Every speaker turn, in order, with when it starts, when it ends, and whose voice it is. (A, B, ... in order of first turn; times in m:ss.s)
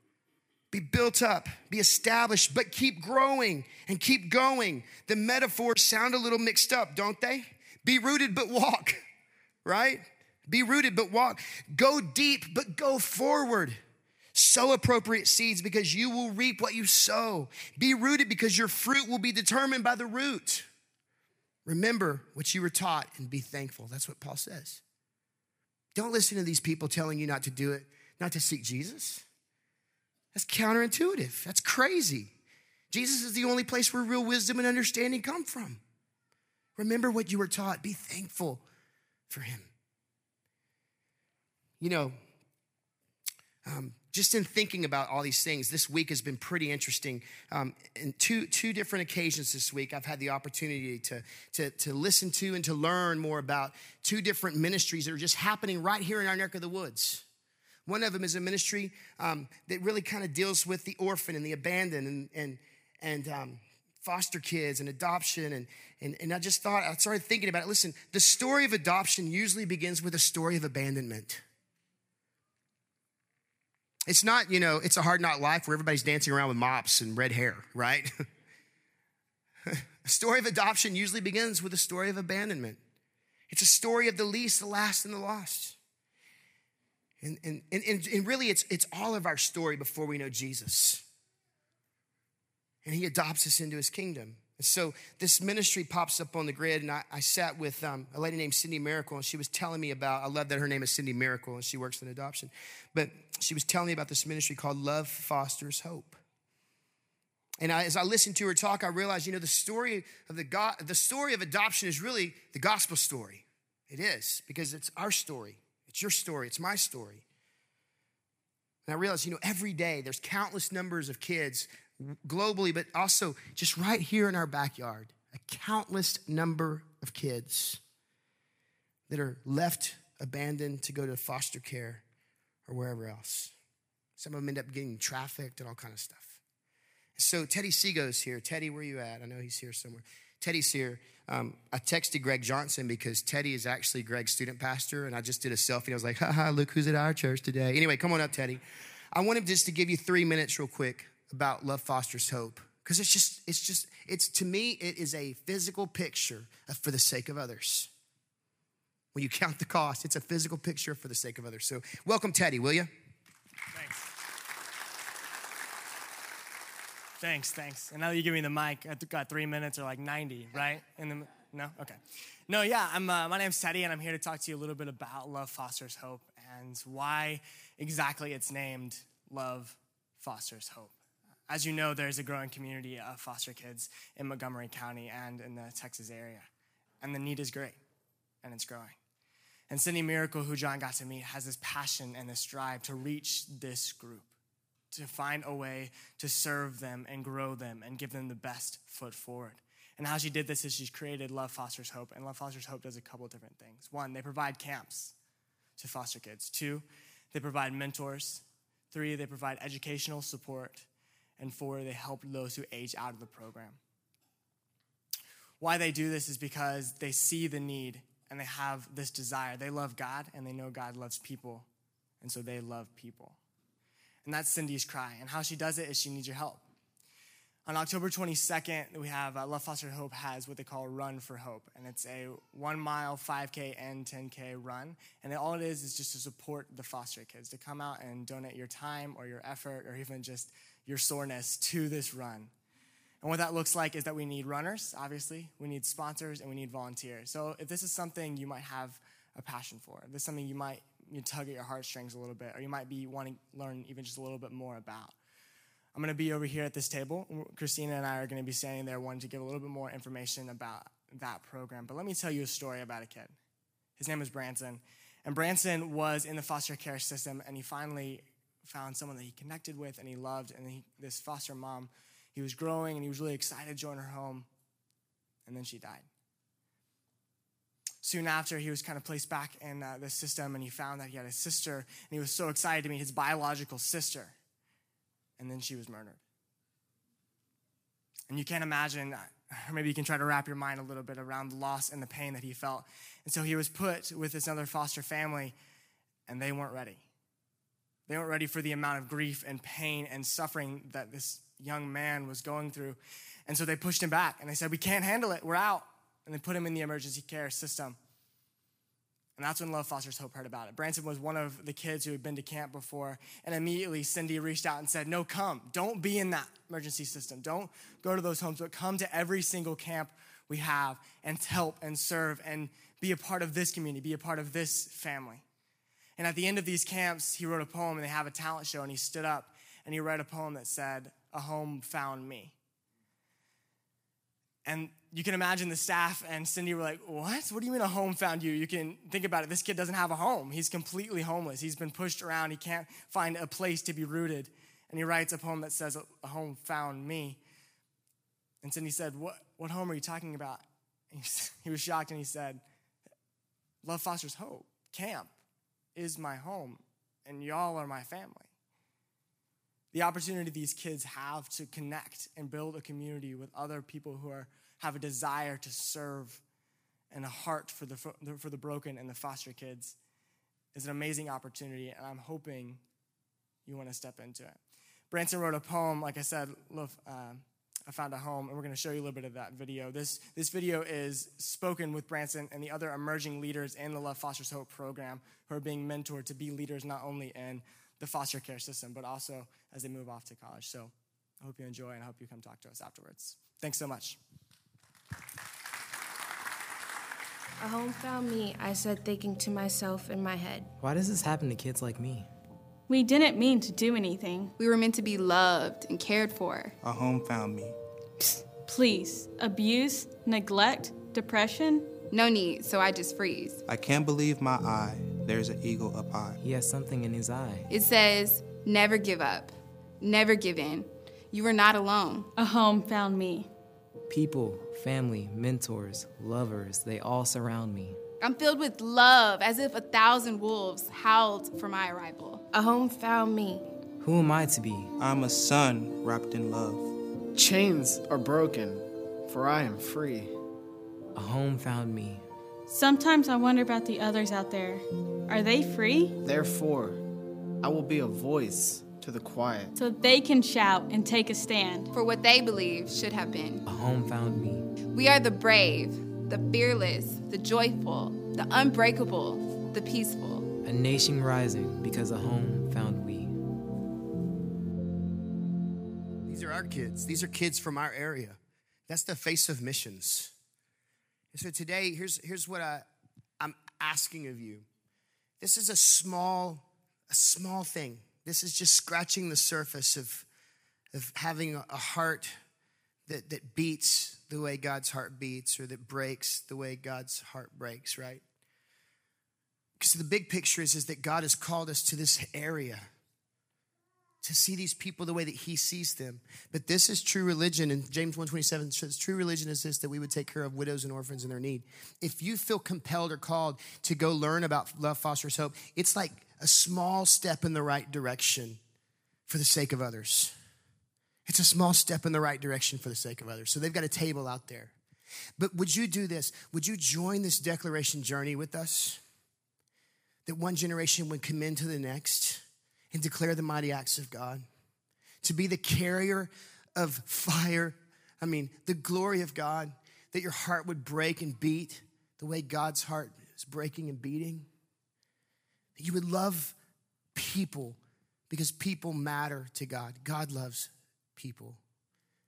0:00.7-0:09.0 A
0:09.6-0:13.8 A
0:14.3-0:20.7 A
0:21.7-0:24.8 A
0:26.0-0:29.2 A
0:30.3-0:32.3 A
0:32.9-0:35.8 A
0:36.8-0:38.6 A
0:39.3-0:39.7 A
0:41.8-0:42.2 A
0:43.7-0:57.2 A
0:57.9-1:11.4 A
1:14.1-1:18.1 A
1:19.7-1:22.8 A
1:23.5-1:25.8 A
1:27.2-1:31.0 A
1:32.8-1:46.2 A
1:47.6-1:57.2 A
1:58.9-2:07.8 A
2:09.1-2:12.0 A
2:12.7-2:13.5 A
2:14.2-2:16.4 A
2:17.2-2:28.6 A
2:29.2-2:37.9 A
2:39.1-2:42.9 A
2:43.7-2:44.1 B
2:47.2-3:00.9 B
3:01.5-3:06.5 B
3:07.0-3:07.8 B
3:08.4-3:09.0 B
3:09.7-3:14.3 B
3:14.9-3:25.1 B
3:25.8-3:30.9 B
3:31.4-3:33.8 B
3:35.6-3:41.7 B
3:42.2-3:43.4 B
3:44.2-3:46.6 B
3:47.7-4:02.5 B
4:03.2-4:15.2 B
4:16.0-4:23.3 B
4:24.0-4:34.5 B
4:35.5-4:36.1 B
4:38.0-4:44.3 B
4:45.4-4:46.2 B
4:48.3-4:55.6 B
4:56.3-4:57.0 B
4:58.1-5:08.0 B
5:09.4-5:25.4 B
5:26.2-5:32.5 B
5:34.6-5:47.4 B
5:48.6-5:52.6 B
5:53.8-5:55.3 B
5:56.0-5:58.5 B
5:59.9-6:06.4 B
6:07.1-6:10.0 B
6:10.7-6:12.8 B
6:13.7-6:14.6 B
6:15.1-6:34.2 B
6:37.6-6:40.7 C
6:40.8-6:42.3 D
6:42.9-6:44.5 E
6:44.6-6:46.8 F
6:46.8-6:47.8 G
6:48.6-6:52.0 E
6:52.1-6:53.6 F
6:53.7-6:56.4 G
6:56.4-6:57.7 D
6:57.7-7:02.3 F
7:02.4-7:03.5 E
7:04.1-7:08.0 D
7:08.2-7:12.4 F
7:12.5-7:13.7 C
7:14.0-7:14.9 D
7:15.0-7:16.9 G
7:17.4-7:20.4 H
7:21.1-7:22.2 D
7:22.7-7:26.2 E
7:26.2-7:27.0 H
7:27.6-7:29.7 H
7:29.8-7:31.9 E
7:31.9-7:33.6 F
7:33.7-7:34.7 D
7:34.9-7:40.5 F
7:40.6-7:43.4 D
7:46.3-7:48.4 A
7:48.9-7:50.3 A
7:51.3-7:52.9 A
7:53.4-7:54.7 A
7:55.4-8:00.3 A
8:00.9-8:02.4 A
8:03.1-8:08.2 A
8:09.8-8:12.9 A
8:14.2-8:28.6 A
8:29.3-8:30.3 A
8:31.3-8:34.8 A
8:35.4-8:39.0 A
8:40.3-8:44.4 A
8:45.2-8:54.5 A
8:55.8-8:56.6 A
8:57.2-8:57.8 A
8:58.3-9:01.6 A